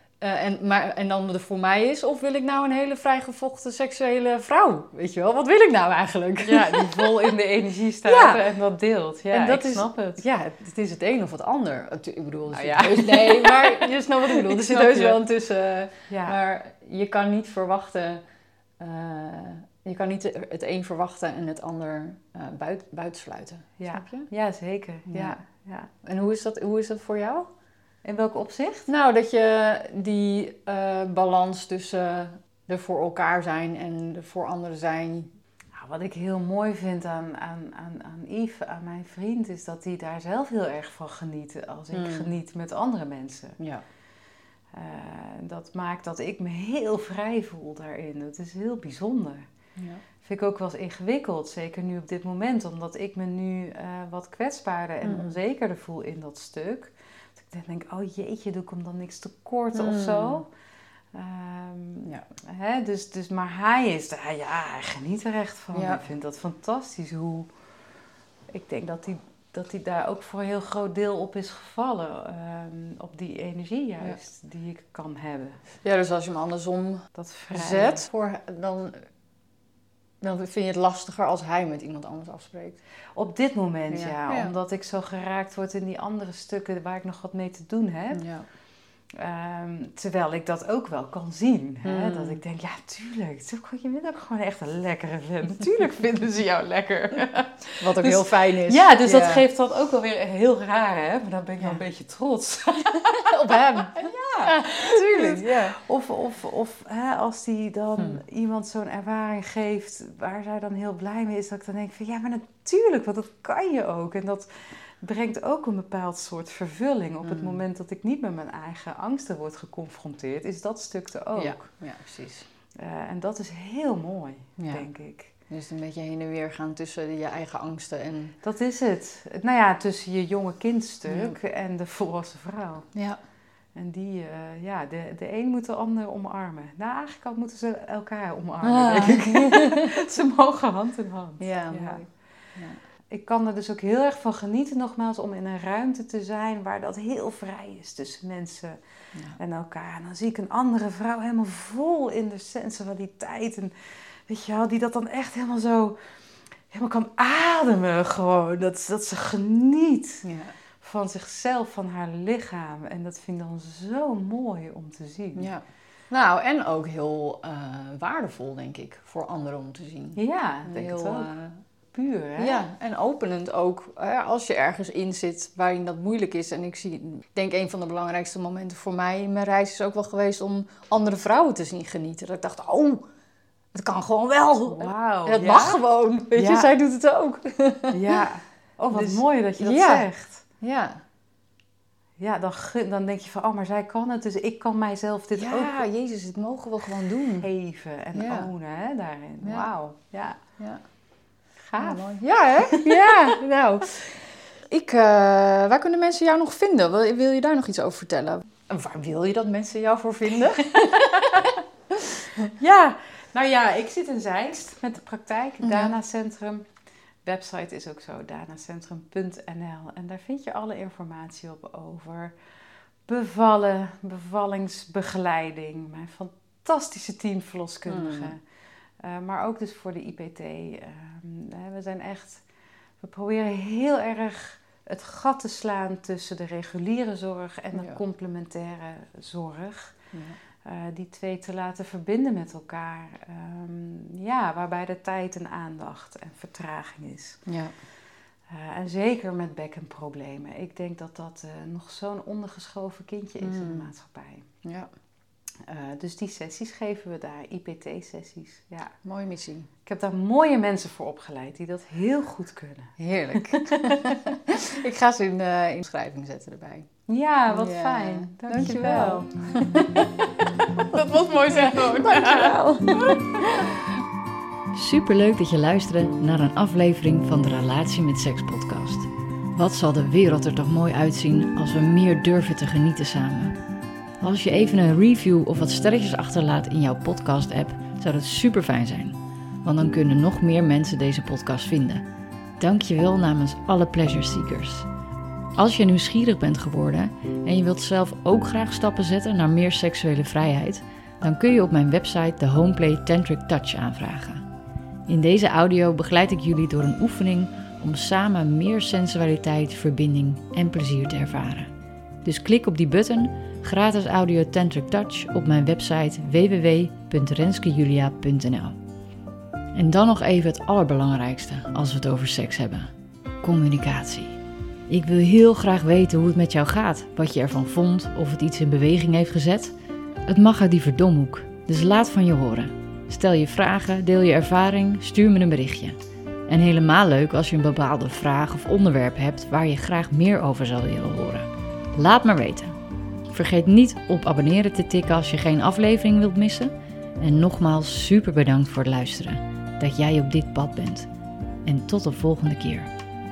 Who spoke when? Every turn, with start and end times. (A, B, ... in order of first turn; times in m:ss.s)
0:00.2-0:07.3 A
0:06.4-0:10.2 B
0:08.0-0:08.4 A
0:09.3-0:18.2 A
0:12.5-0:15.2 B
0:16.1-0:16.4 B
0:18.8-0:24.3 A
0:23.8-0:25.9 B
0:25.1-0:25.4 A
0:26.0-0:27.5 A
0:28.0-0:28.9 B
0:28.9-0:35.3 A
0:35.8-0:43.6 B
0:41.9-0:42.3 A
0:44.7-0:49.5 B
0:49.8-0:50.0 A
0:50.2-1:00.5 B
0:55.0-0:55.4 A
0:59.7-1:00.4 A
1:01.1-1:07.5 B
1:05.7-1:06.0 A
1:08.5-1:15.6 B
1:15.8-1:19.0 A
1:17.2-1:18.1 B
1:20.2-1:22.8 A
1:23.2-1:28.3 B
1:23.9-1:24.6 A
1:28.1-1:28.5 A
1:29.2-2:01.6 B
1:31.8-1:32.4 A
1:37.8-1:39.4 A
1:43.0-1:45.8 A
1:57.2-1:57.6 A
2:01.4-2:02.5 A
2:02.8-2:05.3 B
2:04.6-2:04.9 A
2:05.5-2:08.4 A
2:08.4-2:12.9 B
2:11.1-2:11.4 A
2:12.9-2:13.2 A
2:13.8-2:22.0 B
2:18.6-2:20.0 A
2:21.4-2:22.8 A
2:23.1-2:28.8 B
2:29.4-2:36.1 B
2:36.7-2:40.3 B
2:40.2-2:40.6 A
2:40.8-2:45.5 B
2:45.4-2:51.6 A
2:50.2-2:51.3 B
2:51.9-2:52.6 B
2:52.4-3:03.1 A
3:03.7-3:08.2 A
3:04.7-3:05.8 B
3:06.3-3:06.7 B
3:07.9-3:10.4 B
3:08.9-3:10.1 A
3:10.6-3:11.0 A
3:12.2-3:15.8 B
3:15.3-3:17.5 A
3:17.4-3:20.4 B
3:18.1-3:18.5 A
3:19.4-3:19.7 A
3:21.6-3:23.4 B
3:21.8-3:32.5 A
3:30.8-3:31.5 B
3:32.6-3:36.6 B
3:35.6-3:35.9 A
3:37.2-3:42.4 B
3:43.1-3:48.4 B
3:47.9-3:48.4 A
3:49.0-3:52.4 B
3:53.0-4:00.0 B
3:57.8-3:58.0 A
4:00.1-4:00.4 A
4:00.6-4:07.4 B
4:07.5-4:07.7 A
4:08.5-4:14.5 B
4:13.4-4:13.9 A
4:14.6-4:14.9 A
4:15.7-4:18.9 B
4:19.0-4:19.7 A
4:19.9-4:24.0 B
4:23.0-4:26.9 A
4:27.1-4:29.3 B
4:27.5-4:30.1 A
4:30.8-4:33.3 B
4:31.5-4:33.8 A
4:34.7-4:43.6 C
4:44.2-4:52.0 C
4:52.6-4:54.9 C
4:55.6-5:04.5 C
5:05.1-5:11.7 C
5:12.2-5:18.8 C
5:19.8-5:29.7 C
5:30.3-5:42.8 C
5:43.3-5:51.1 C
5:51.6-5:52.9 C